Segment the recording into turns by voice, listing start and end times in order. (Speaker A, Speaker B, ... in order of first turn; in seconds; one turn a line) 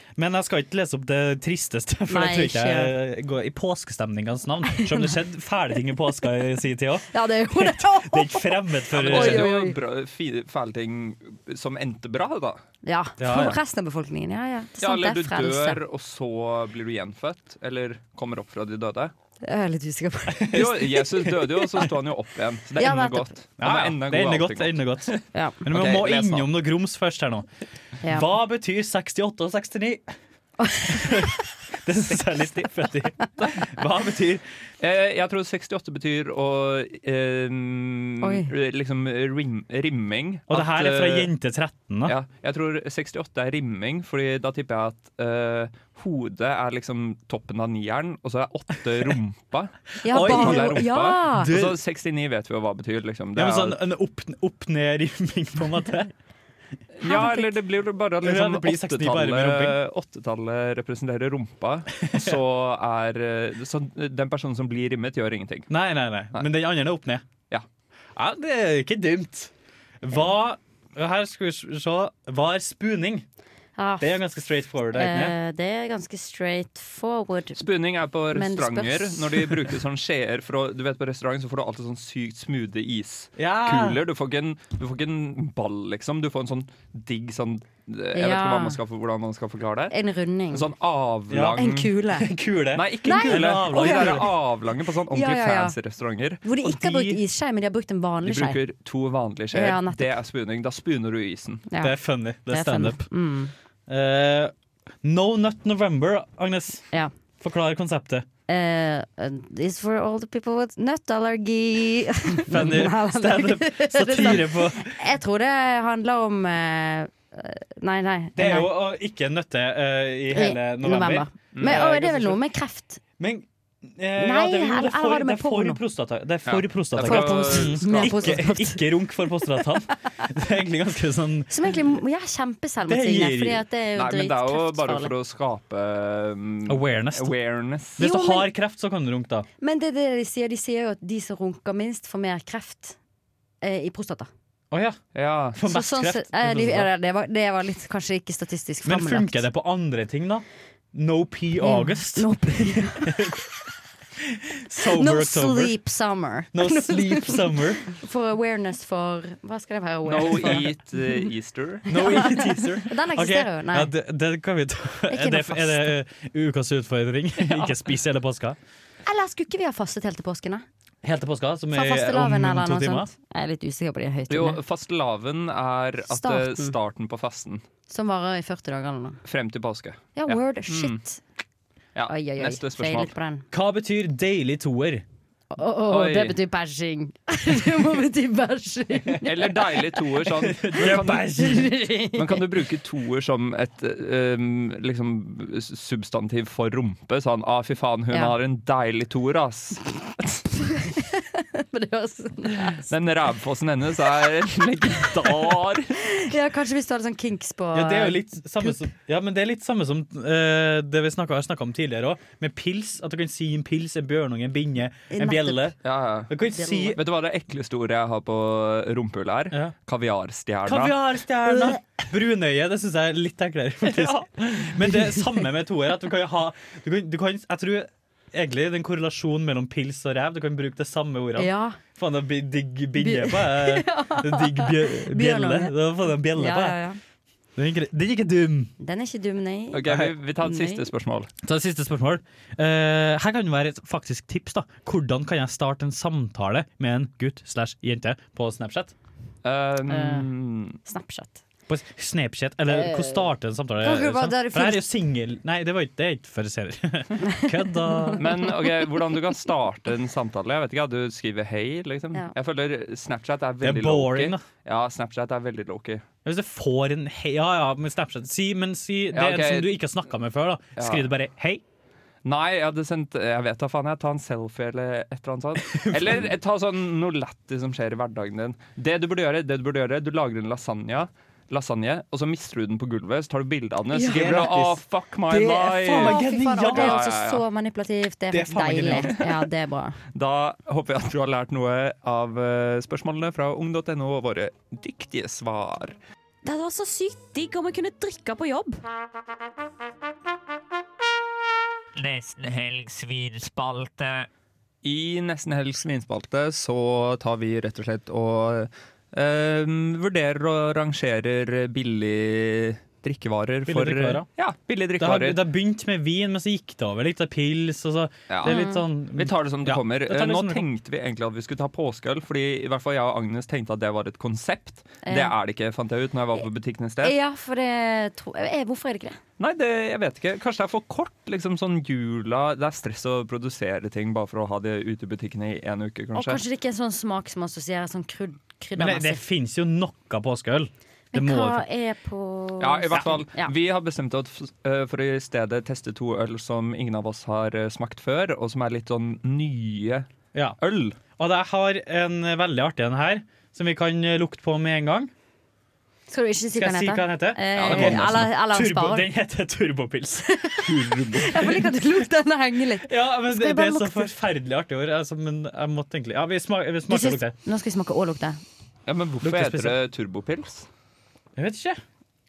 Speaker A: 0.2-9.5
Speaker B: 2.1-2.9
Speaker B: 4.8-5.1
Speaker B: 7.1-9.8
Speaker C: 8.9-12.6
Speaker B: 12.8-15.8
Speaker A: 13.2-13.6
Speaker C: 13.3-13.6
Speaker C: 14.8-19.1
Speaker B: 19.4-21.0
Speaker A: 20.3-20.7
Speaker C: 20.5-26.5
Speaker B: 22.8-23.3
Speaker A: 23.6-27.5
Speaker B: 25.3-25.6
Speaker A: 28.1-30.1
Speaker B: 30.6-31.3
Speaker A: 30.9-34.4
Speaker C: 32.2-32.7
Speaker C: 34.8-41.3
Speaker B: 38.2-38.5
Speaker A: 40.5-42.1
Speaker C: 42.1-53.8
Speaker B: 50.0-51.5
Speaker A: 50.0-51.8
Speaker A: 53.4-56.1
Speaker C: 57.0-65.7
Speaker B: 57.0-57.5
Speaker A: 58.2-59.8
Speaker A: 62.0-62.3
Speaker A: 65.7-67.2
Speaker A: 68.2-69.5
Speaker A: 70.0-73.2
Speaker B: 73.8-74.2
Speaker A: 74.0-75.3
Speaker B: 74.9-77.6
Speaker C: 77.6-89.9
Speaker B: 78.3-79.5
Speaker A: 83.4-84.0
Speaker B: 88.1-88.8
Speaker B: 89.9-90.7
Speaker C: 90.5-91.9
Speaker A: 91.3-94.3
Speaker B: 91.6-92.3
Speaker C: 92.8-96.4
Speaker B: 93.0-94.3
Speaker B: 95.1-95.8
Speaker B: 96.4-98.6
Speaker A: 96.6-97.2
Speaker C: 98.2-101.7
Speaker B: 99.5-100.1
Speaker B: 101.7-101.9
Speaker A: 101.8-103.1
Speaker B: 102.5-103.5
Speaker A: 103.9-106.8
Speaker A: 107.4-108.2
Speaker B: 108.5-118.7
Speaker A: 112.5-115.0
Speaker A: 118.3-122.4
Speaker B: 120.3-123.0
Speaker C: 121.5-121.9
Speaker A: 123.2-131.5
Speaker B: 124.2-125.8
Speaker C: 126.5-128.3
Speaker B: 127.0-128.8
Speaker B: 131.5-135.1
Speaker A: 132.9-133.6
Speaker C: 133.9-138.0
Speaker A: 136.7-137.3
Speaker A: 138.0-139.5
Speaker B: 138.0-138.5
Speaker B: 139.6-143.0
Speaker B: 143.6-144.3
Speaker A: 144.7-145.0
Speaker C: 145.1-145.6
Speaker A: 145.5-146.9
Speaker B: 145.6-149.4
Speaker A: 148.8-153.4
Speaker B: 151.6-153.1
Speaker A: 154.2-155.7
Speaker B: 154.9-160.7
Speaker A: 156.5-157.8
Speaker C: 160.1-162.3
Speaker A: 160.2-160.6
Speaker A: 161.9-168.6
Speaker B: 161.9-163.9
Speaker B: 165.1-165.9
Speaker B: 169.1-170.7
Speaker A: 171.0-173.1
Speaker B: 171.7-174.6
Speaker C: 174.3-177.6
Speaker B: 176.1-176.8
Speaker B: 177.9-179.2
Speaker C: 179.2-181.0
Speaker B: 180.2-181.2
Speaker C: 181.9-183.1
Speaker B: 182.1-183.4
Speaker A: 183.5-185.0
Speaker B: 185.5-189.6
Speaker C: 185.9-186.4
Speaker C: 189.2-200.4
Speaker A: 190.3-191.7
Speaker B: 190.8-192.5
Speaker B: 200.8-202.9
Speaker C: 202.8-206.0
Speaker B: 206.1-208.8
Speaker A: 207.7-215.8
Speaker B: 215.1-215.7
Speaker C: 215.8-221.0
Speaker A: 216.3-217.0
Speaker B: 216.5-216.9
Speaker A: 220.7-236.8
Speaker B: 221.5-221.8
Speaker C: 223.9-224.2
Speaker B: 231.4-231.8
Speaker B: 233.0-235.8
Speaker B: 236.3-237.0
Speaker A: 237.6-238.7
Speaker B: 238.8-240.9
Speaker C: 239.7-241.3
Speaker A: 239.9-240.1
Speaker A: 241.4-248.9
Speaker C: 249.4-250.8
Speaker B: 249.9-250.3
Speaker B: 250.8-251.4
Speaker A: 251.7-258.3
Speaker B: 252.7-253.3
Speaker B: 253.8-254.8
Speaker B: 257.2-258.2
Speaker C: 258.2-266.0
Speaker A: 263.6-264.4
Speaker A: 266.2-271.6
Speaker C: 269.1-269.7
Speaker C: 270.8-271.1
Speaker C: 272.2-287.4
Speaker A: 275.6-276.3
Speaker B: 283.9-284.4
Speaker A: 284.0-287.0
Speaker B: 285.9-290.0
Speaker A: 288.3-289.3
Speaker C: 290.1-296.0
Speaker D: 296.5-298.8
Speaker B: 296.6-297.3
Speaker E: 302.0-304.1
Speaker C: 304.8-315.4
Speaker A: 313.6-314.3
Speaker A: 315.0-320.6
Speaker C: 318.3-327.1
Speaker B: 318.4-318.8
Speaker B: 325.0-325.3
Speaker B: 327.0-329.2
Speaker C: 329.4-336.4
Speaker B: 336.1-339.2
Speaker A: 338.8-341.6
Speaker B: 341.1-343.5
Speaker C: 342.6-350.1
Speaker C: 350.6-351.0
Speaker A: 351.2-355.1
Speaker B: 356.1-359.1
Speaker A: 356.5-361.9
Speaker C: 357.6-358.3
Speaker B: 360.4-364.1
Speaker A: 362.9-367.4
Speaker B: 366.9-368.4
Speaker C: 368.9-370.7
Speaker A: 369.2-369.8
Speaker A: 371.4-371.8